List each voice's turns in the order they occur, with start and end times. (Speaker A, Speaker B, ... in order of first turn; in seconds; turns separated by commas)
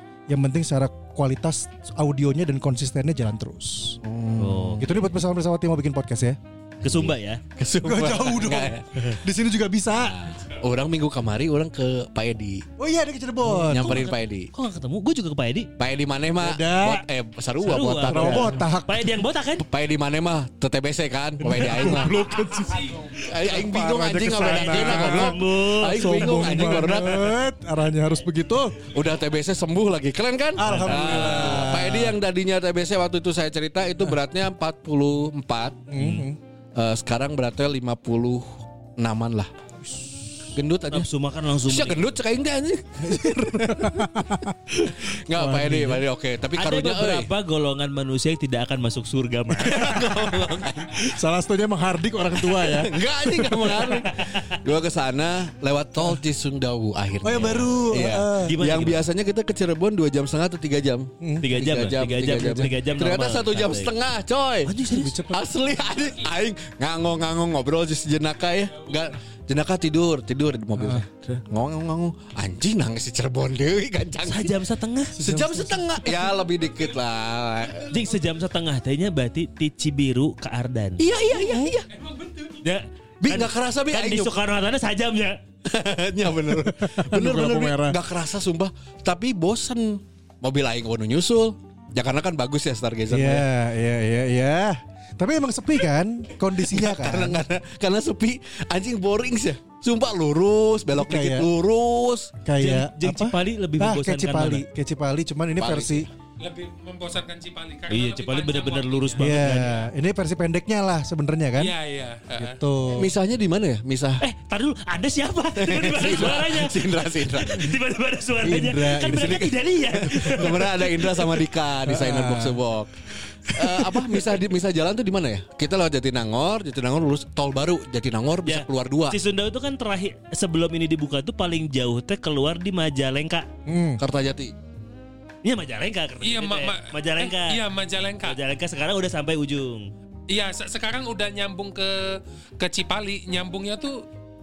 Speaker A: 0.3-4.0, Speaker B: 4.0-4.9, Speaker C: 4.4-4.9, Speaker A: 4.8-6.4, Speaker C: 6.8-7.4, Speaker B: 7.6-8.9, Speaker A: 7.8-10.2, Speaker B: 9.9-12.7, Speaker A: 12.8-14.0, Speaker C: 13.4-15.7, Speaker B: 13.7-14.5, Speaker B: 15.8-18.6, Speaker A: 16.4-17.0, Speaker C: 17.6-19.6, Speaker A: 18.0-19.1, Speaker B: 19.6-22.2, Speaker A: 21.4-28.8, Speaker B: 23.2-27.4, Speaker C: 24.4-26.7, Speaker B: 28.9-35.8, Speaker A: 30.6-32.2, Speaker C: 30.7-31.7, Speaker A: 35.9-36.4, Speaker C: 36.0-36.2, Speaker B: 36.8-38.5, Speaker B: 39.0-39.5, Speaker B: 40.5-41.1, Speaker C: 40.9-42.0, Speaker B: 41.6-44.1, Speaker A: 43.0-46.0, Speaker B: 44.8-47.3, Speaker C: 46.6-50.4, Speaker B: 49.6-51.1, Speaker A: 51.0-53.9, Speaker B: 52.4-64.7, Speaker C: 53.8-54.4, Speaker A: 57.2-58.6, Speaker C: 57.4-57.7, Speaker C: 58.4-59.0, Speaker A: 61.2-61.5, Speaker C: 61.4-63.9, Speaker A: 62.4-62.7, Speaker C: 64.7-65.2, Speaker A: 64.8-65.5, Speaker B: 65.3-74.6, Speaker A: 70.8-71.0, Speaker C: 74.2-75.2, Speaker A: 75.2-76.2, Speaker B: 75.2-78.0, Speaker C: 77.9-81.1, Speaker B: 81.0-81.9, Speaker D: 81.9-82.6, Speaker C: 82.6-85.4, Speaker B: 83.2-84.3, Speaker B: 85.6-93.5, Speaker A: 86.5-88.0, Speaker A: 93.1-97.4, Speaker B: 96.7-102.3, Speaker A: 100.9-101.5, Speaker A: 102.4-106.1, Speaker C: 102.6-104.6, Speaker B: 105.6-106.1, Speaker D: 106.4-109.7, Speaker C: 107.9-109.8, Speaker A: 109.2-111.7, Speaker D: 111.6-112.6, Speaker A: 112.3-113.1, Speaker B: 112.9-114.2, Speaker C: 114.2-121.3, Speaker B: 115.5-117.7, Speaker A: 118.4-119.5, Speaker B: 119.0-122.9, Speaker A: 121.8-122.6, Speaker A: 123.5-124.3, Speaker B: 123.5-129.2, Speaker C: 128.4-133.5, Speaker A: 133.7-134.0, Speaker B: 134.0-134.5, Speaker C: 135.4-137.6, Speaker D: 136.2-138.4, Speaker C: 138.2-139.9, Speaker D: 140.3-144.0